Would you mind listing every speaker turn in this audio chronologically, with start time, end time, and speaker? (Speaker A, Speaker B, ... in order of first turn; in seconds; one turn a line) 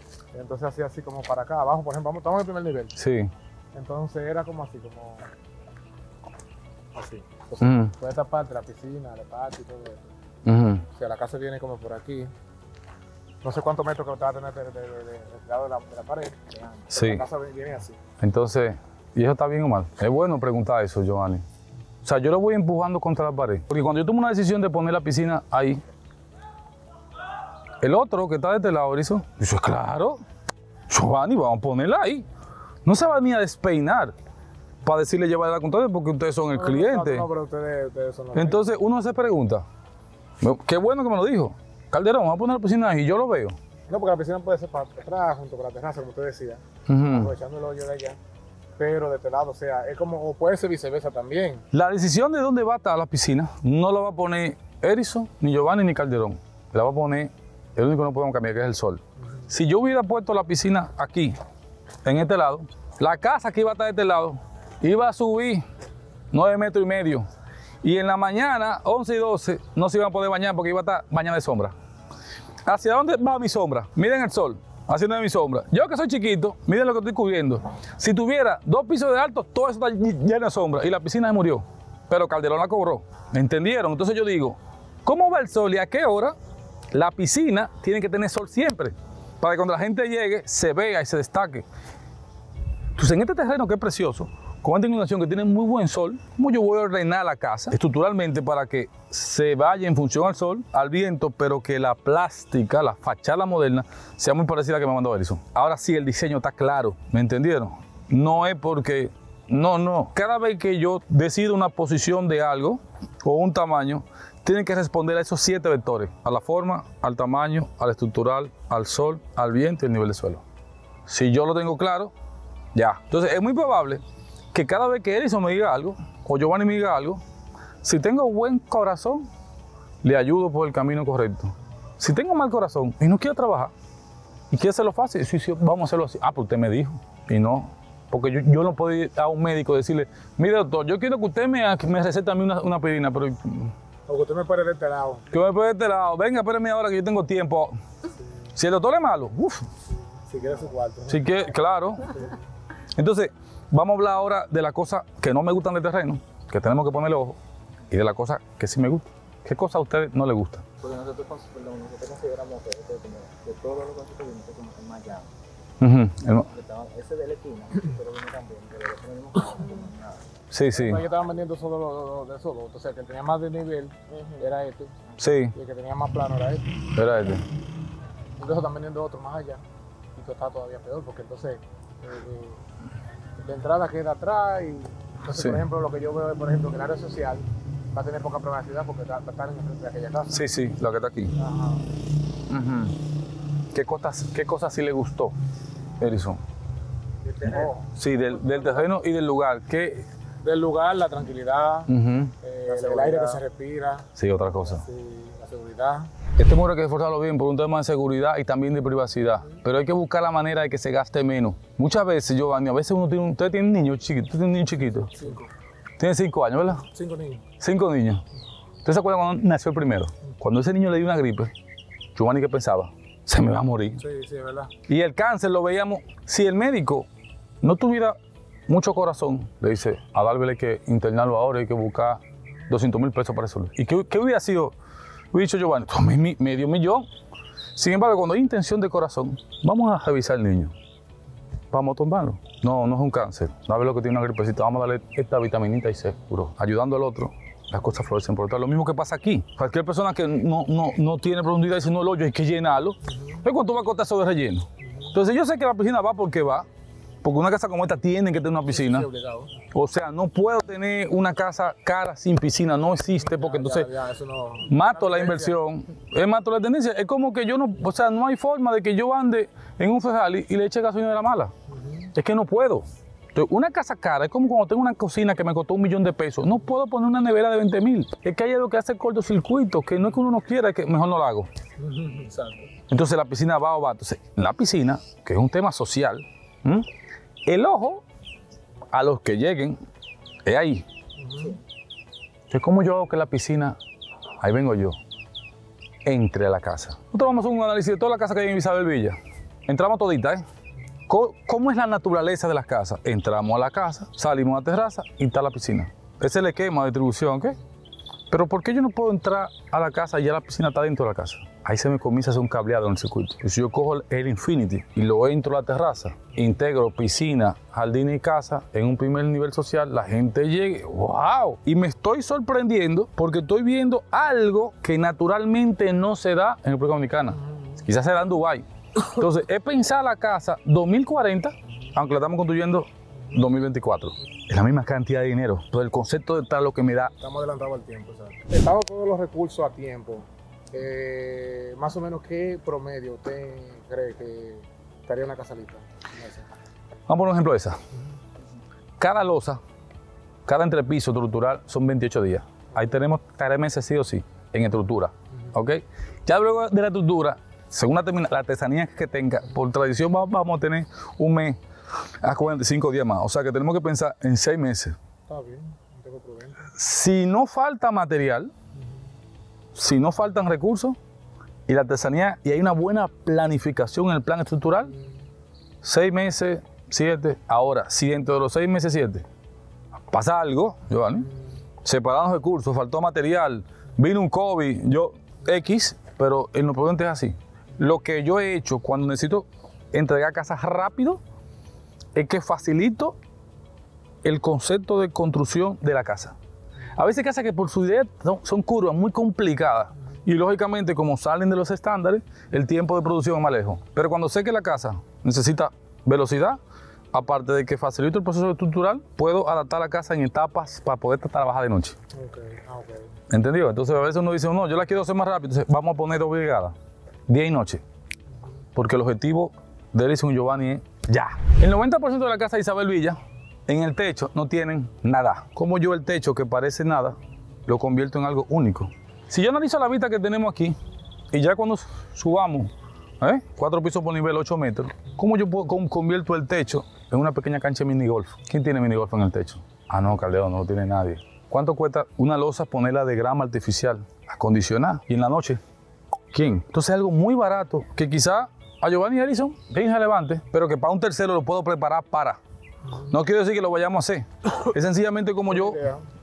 Speaker A: 0.3-3.0
Speaker B: 3.0-3.3
Speaker A: 3.7-5.3
Speaker A: 6.9-10.1
Speaker B: 7.6-7.9
Speaker B: 10.4-10.8
Speaker A: 10.9-12.3
Speaker A: 13.4-18.0
Speaker B: 16.9-17.2
Speaker B: 18.2-21.4
Speaker B: 22.0-25.8
Speaker B: 27.8-30.2
Speaker B: 30.9-32.2
Speaker B: 32.8-34.1
Speaker B: 34.8-37.2
Speaker A: 36.5-38.6
Speaker B: 38.3-39.6
Speaker B: 40.4-43.6
Speaker A: 43.9-48.2
Speaker B: 46.9-47.3
Speaker A: 48.8-51.6
Speaker B: 51.7-61.4
Speaker B: 62.0-65.6
Speaker B: 66.3-67.2
Speaker B: 67.8-71.7
Speaker B: 72.7-86.3
Speaker B: 86.9-91.6
Speaker B: 93.0-120.4
Speaker B: 121.1-122.1
Speaker B: 122.7-124.0
Speaker B: 124.5-127.2
Speaker B: 127.8-129.2
Speaker B: 130.0-133.7
Speaker B: 134.5-143.7
Speaker A: 144.1-145.2
Speaker B: 145.3-147.8
Speaker B: 148.5-149.7
Speaker A: 150.1-151.4
Speaker B: 151.1-152.1
Speaker A: 152.0-152.3
Speaker B: 152.9-157.4
Speaker B: 157.9-160.6
Speaker C: 160.8-165.3
Speaker B: 165.8-166.5
Speaker C: 166.5-170.2
Speaker B: 170.5-171.0
Speaker A: 170.7-174.9
Speaker B: 175.2-175.5
Speaker A: 175.5-176.8
Speaker B: 176.9-177.4
Speaker A: 178.4-179.6
Speaker A: 180.1-182.6
Speaker A: 183.4-190.4
Speaker B: 185.3-185.6
Speaker B: 190.3-191.3
Speaker A: 191.4-191.8
Speaker B: 192.5-192.9
Speaker B: 193.7-195.3
Speaker B: 196.0-196.4
Speaker A: 197.2-197.9
Speaker B: 197.9-200.1
Speaker A: 198.5-198.8
Speaker A: 200.4-201.9
Speaker B: 201.9-202.3
Speaker A: 202.4-204.1
Speaker C: 202.7-203.4
Speaker B: 204.2-204.8
Speaker A: 204.7-206.1
Speaker B: 206.3-215.1
Speaker A: 215.1-215.5
Speaker B: 216.0-216.8
Speaker A: 216.8-217.4
Speaker B: 217.6-218.2
Speaker B: 218.8-221.5
Speaker B: 222.1-224.0
Speaker A: 224.0-224.7
Speaker B: 224.9-227.1
Speaker B: 227.6-234.7
Speaker B: 235.3-237.1
Speaker B: 237.8-240.7
Speaker B: 241.7-256.6
Speaker A: 254.8-255.1
Speaker B: 257.2-259.1
Speaker A: 258.7-259.5
Speaker B: 259.7-263.9
Speaker A: 263.2-265.6
Speaker B: 264.6-271.5
Speaker A: 271.7-272.1
Speaker B: 272.1-281.5
Speaker A: 281.8-282.6
Speaker B: 282.9-286.9
Speaker B: 287.4-288.0
Speaker B: 288.9-289.8
Speaker B: 290.4-290.8
Speaker A: 291.2-291.5
Speaker C: 291.3-291.6
Speaker B: 292.5-293.8
Speaker B: 294.4-295.0
Speaker B: 296.0-300.4
Speaker B: 301.1-307.6
Speaker B: 308.3-337.1
Speaker A: 327.4-327.8
Speaker A: 337.2-346.5
Speaker B: 347.1-347.8
Speaker B: 349.0-349.6
Speaker B: 350.4-361.6
Speaker B: 362.2-364.9
Speaker A: 365.3-366.6
Speaker B: 366.7-368.5
Speaker B: 369.7-371.0
Speaker B: 371.7-374.9
Speaker B: 375.8-379.2
Speaker B: 380.1-381.3
Speaker B: 381.8-391.2
Speaker B: 392.1-393.2
Speaker B: 394.2-396.4
Speaker B: 396.9-406.6
Speaker B: 407.1-411.9
Speaker A: 412.1-413.1
Speaker B: 413.3-416.7
Speaker B: 417.3-417.8
Speaker B: 418.7-427.1
Speaker B: 427.7-430.8
Speaker B: 431.3-445.6
Speaker B: 446.3-452.4
Speaker B: 452.9-455.9
Speaker A: 455.5-456.1